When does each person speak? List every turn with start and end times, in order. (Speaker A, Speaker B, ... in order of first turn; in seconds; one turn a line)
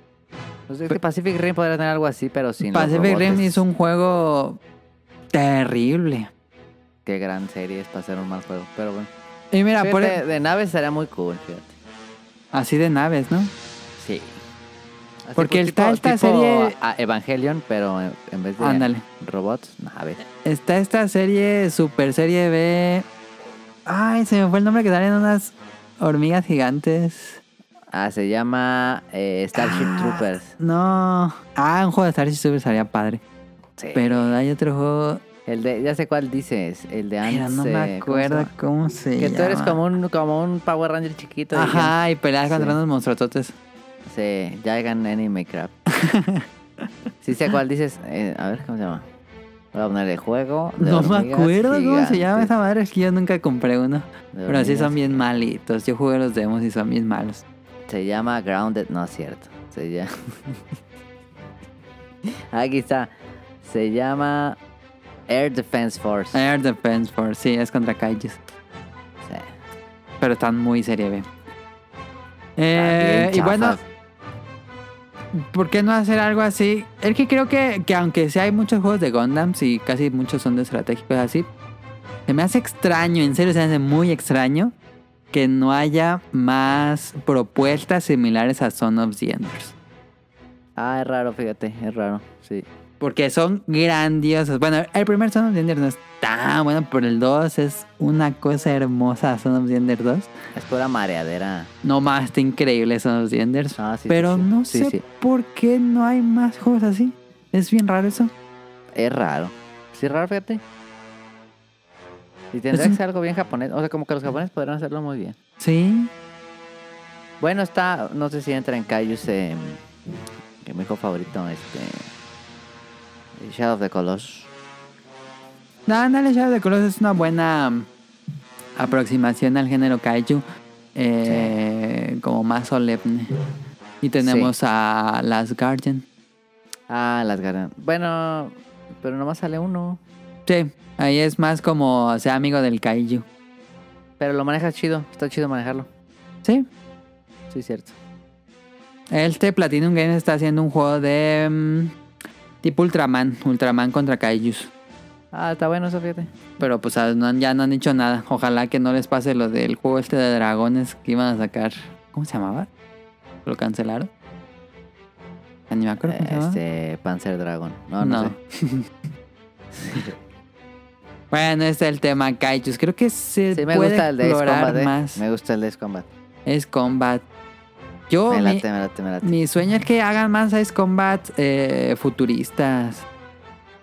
Speaker A: 0.7-3.6
Speaker B: 2.7-4.6
Speaker B: 5.3-6.3
Speaker A: 7.0-9.1
Speaker B: 9.5-10.2
Speaker A: 9.8-11.8
Speaker B: 12.5-13.5
Speaker A: 14.0-14.4
Speaker A: 15.2-20.2
Speaker B: 15.3-16.7
Speaker B: 18.6-19.0
Speaker B: 20.4-23.1
Speaker B: 23.9-27.4
Speaker A: 27.9-30.5
Speaker B: 29.5-33.2
Speaker A: 33.8-34.2
Speaker B: 33.9-35.2
Speaker A: 35.5-38.5
Speaker B: 37.2-39.8
Speaker A: 39.2-41.9
Speaker B: 41.5-43.5
Speaker A: 42.5-42.8
Speaker A: 44.0-45.7
Speaker B: 45.9-46.5
Speaker A: 47.2-49.0
Speaker A: 49.7-52.5
Speaker B: 50.8-57.4
Speaker A: 54.3-55.2
Speaker A: 57.9-60.6
Speaker A: 62.2-64.6
Speaker A: 65.3-66.4
Speaker B: 66.3-68.4
Speaker A: 69.2-69.5
Speaker B: 70.2-71.2
Speaker B: 72.6-73.8
Speaker A: 72.7-73.8
Speaker B: 75.3-81.5
Speaker B: 82.3-84.7
Speaker B: 85.3-89.7
Speaker A: 90.8-92.7
Speaker B: 93.0-100.3
Speaker A: 100.5-101.7
Speaker B: 101.8-108.3
Speaker A: 103.8-105.0
Speaker A: 108.9-110.6
Speaker A: 112.5-115.4
Speaker B: 112.7-113.0
Speaker B: 115.6-116.1
Speaker A: 117.4-119.8
Speaker A: 120.6-122.1
Speaker A: 123.3-124.5
Speaker B: 125.9-127.9
Speaker B: 128.8-130.4
Speaker B: 130.9-133.3
Speaker A: 131.2-131.6
Speaker B: 134.0-136.0
Speaker A: 134.2-134.5
Speaker A: 136.9-140.0
Speaker B: 140.5-143.2
Speaker A: 144.2-145.9
Speaker A: 147.5-147.9
Speaker B: 149.1-151.9
Speaker B: 152.6-154.7
Speaker A: 155.3-156.3
Speaker B: 156.6-162.7
Speaker B: 163.4-164.1
Speaker B: 165.7-166.6
Speaker A: 166.0-168.3
Speaker B: 168.0-168.9
Speaker A: 169.7-170.1
Speaker B: 171.3-175.2
Speaker A: 173.5-176.1
Speaker B: 176.4-177.2
Speaker B: 178.1-178.6
Speaker A: 178.3-179.3
Speaker B: 179.2-183.1